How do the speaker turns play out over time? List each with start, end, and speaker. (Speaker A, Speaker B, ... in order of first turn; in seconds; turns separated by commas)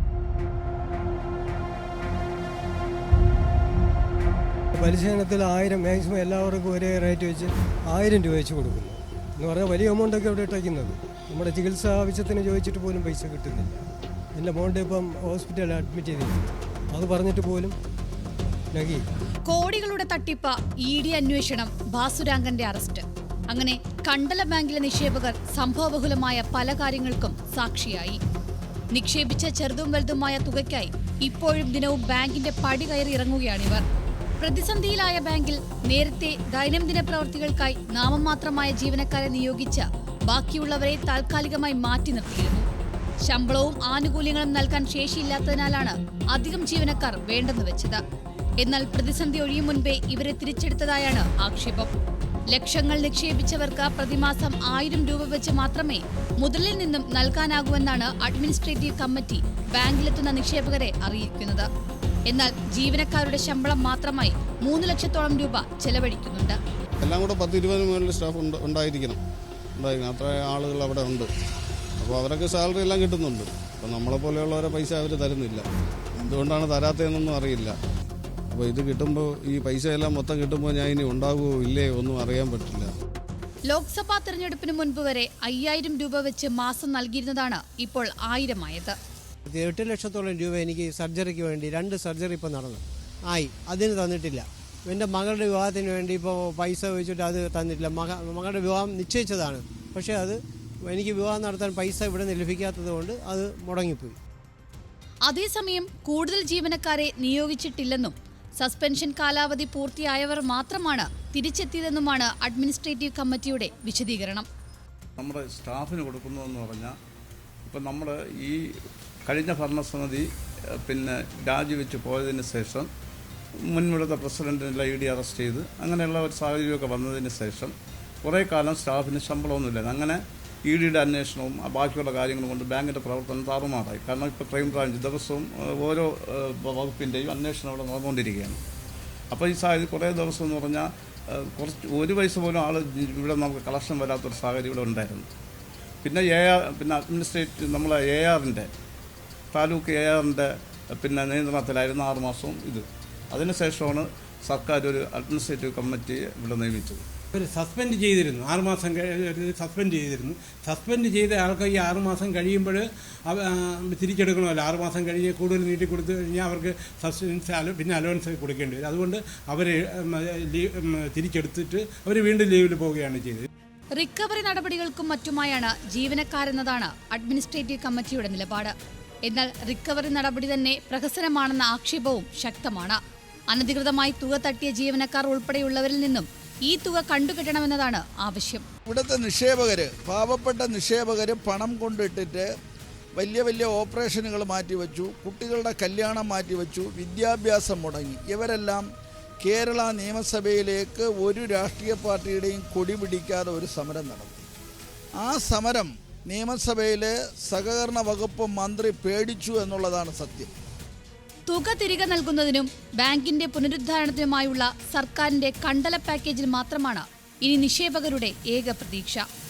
Speaker A: 4.8-17.7, Speaker A: 18.7-19.1, Speaker B: 19.4-28.2, Speaker B: 28.9-33.8, Speaker B: 34.4-42.6, Speaker B: 43.2-48.0, Speaker B: 48.6-51.9, Speaker B: 52.5-61.7, Speaker B: 62.3-66.6, Speaker C: 67.0-69.2, Speaker C: 69.8-71.3, Speaker C: 72.0-75.6, Speaker C: 76.2-77.7, Speaker C: 78.5-82.9, Speaker B: 83.7-88.9, Speaker D: 89.5-104.2, Speaker B: 105.2-114.5, Speaker E: 115.2-116.9, Speaker E: 117.7-118.6, Speaker E: 119.2-120.2, Speaker E: 120.8-122.9, Speaker E: 123.7-127.7, Speaker E: 128.2-138.6, Speaker E: 139.3-145.3, Speaker E: 146.0-148.7, Speaker E: 149.5-157.0, Speaker F: 157.3-173.5, Speaker B: 174.0-178.7, Speaker B: 179.2-183.0, Speaker B: 183.5-188.6, Speaker G: 188.9-192.5, Speaker G: 193.1-198.8, Speaker G: 199.4-204.4, Speaker G: 205.2-210.5, Speaker B: 211.5-219.2